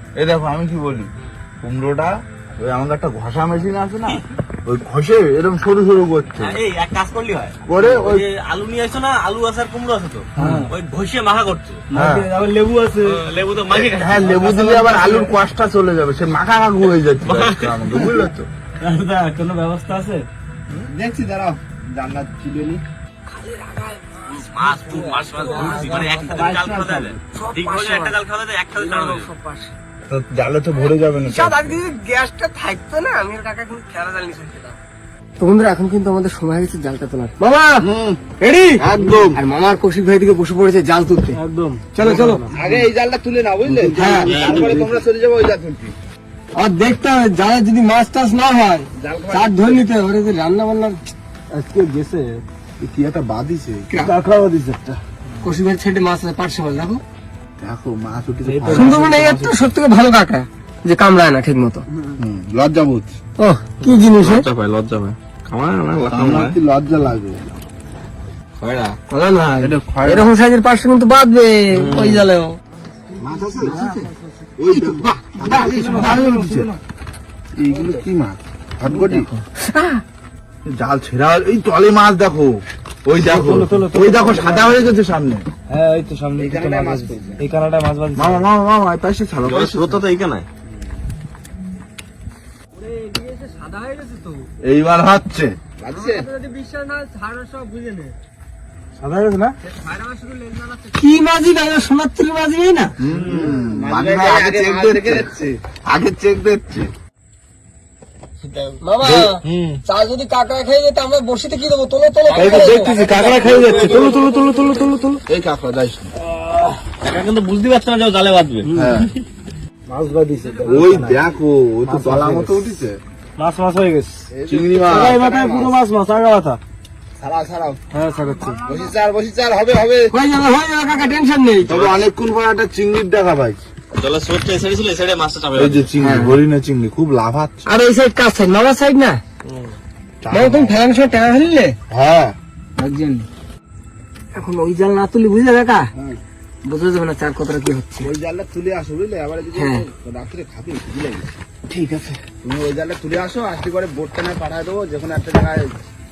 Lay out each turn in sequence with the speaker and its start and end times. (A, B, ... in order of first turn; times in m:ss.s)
0:00.2-0:06.6 A
0:06.4-0:11.8 B
0:07.7-0:08.3 A
0:10.4-0:10.7 A
0:10.4-0:10.7 C
0:11.9-0:13.2 C
0:11.9-0:12.3 A
0:13.0-0:14.4 B
0:13.7-0:18.5 A
0:14.3-0:15.3 C
0:17.2-0:18.0 B
0:18.0-0:20.8 C
0:20.8-0:22.8 D
0:23.3-0:26.6 E
0:24.4-0:29.3 B
0:25.5-0:26.5 C
0:26.0-0:27.1 A
0:27.3-0:28.2 E
0:28.8-0:29.7 E
0:30.1-0:31.7 A
0:31.2-0:34.8 E
0:35.4-0:37.4 E
0:37.4-0:37.7 C
0:37.8-0:38.2 D
0:38.4-0:38.8 C
0:38.8-0:39.4 A
0:39.0-0:41.4 E
0:41.4-0:42.6 C
0:41.9-0:42.5 E
0:42.5-0:45.9 D
0:43.7-0:45.0 A
0:44.0-0:44.5 E
0:44.3-0:44.8 C
0:46.6-0:51.0 E
0:49.0-0:49.8 D
0:51.5-0:52.4 C
0:52.8-0:55.0 A
0:55.4-0:57.0 E
0:57.6-0:59.7 A
0:58.4-0:59.4 C
0:58.7-1:01.8 E
1:02.2-1:03.1 A
1:03.4-1:04.5 E
1:03.8-1:06.6 B
1:06.1-1:07.5 A
1:08.6-1:09.0 B
1:09.1-1:12.6 E
1:09.6-1:10.3 A
1:11.7-1:12.3 B
1:13.2-1:14.0 D
1:13.2-1:14.1 A
1:13.6-1:14.1 C
1:14.6-1:16.8 A
1:14.7-1:16.2 D
1:15.4-1:16.7 C
1:17.6-1:19.3 A
1:18.9-1:19.3 D
1:19.6-1:20.0 E
1:20.7-1:25.5 A
1:23.2-1:24.8 C
1:25.7-1:28.5 C
1:26.4-1:27.5 D
1:28.2-1:30.0 A
1:29.4-1:30.5 B
1:32.8-1:34.4 E
1:34.6-1:35.6 A
1:35.8-1:36.3 D
1:35.9-1:38.1 E
1:39.0-1:39.6 C
1:39.8-1:42.9 E
1:43.0-1:46.9 A
1:43.0-1:45.4 D
1:48.4-1:49.8 D
1:48.8-1:54.7 E
1:52.3-1:55.2 C
1:52.4-1:54.1 A
1:52.5-1:54.1 D
1:55.3-1:56.0 A
1:55.4-1:56.0 D
1:57.0-1:58.7 B
1:58.7-1:58.9 C
1:58.8-1:59.1 A
1:59.9-2:01.3 C
2:00.6-2:03.0 A
2:01.9-2:02.5 C
2:03.4-2:04.3 C
2:04.3-2:05.8 D
2:04.4-2:05.2 A
2:04.8-2:06.6 C
2:07.2-2:07.8 D
2:07.9-2:08.6 C
2:08.0-2:08.6 E
2:08.6-2:08.9 A
2:08.6-2:10.1 D
2:10.1-2:11.7 E
2:11.7-2:13.6 A
2:11.7-2:12.0 B
2:14.0-2:15.9 B
2:15.6-2:17.6 A
2:16.0-2:16.4 E
2:17.7-2:19.2 E
2:20.2-2:20.8 A
2:20.3-2:21.8 E
2:21.9-2:22.4 A
2:22.8-2:23.3 E
2:24.3-2:25.9 E
2:26.7-2:28.1 E
2:28.0-2:35.7 D
2:29.5-2:29.9 E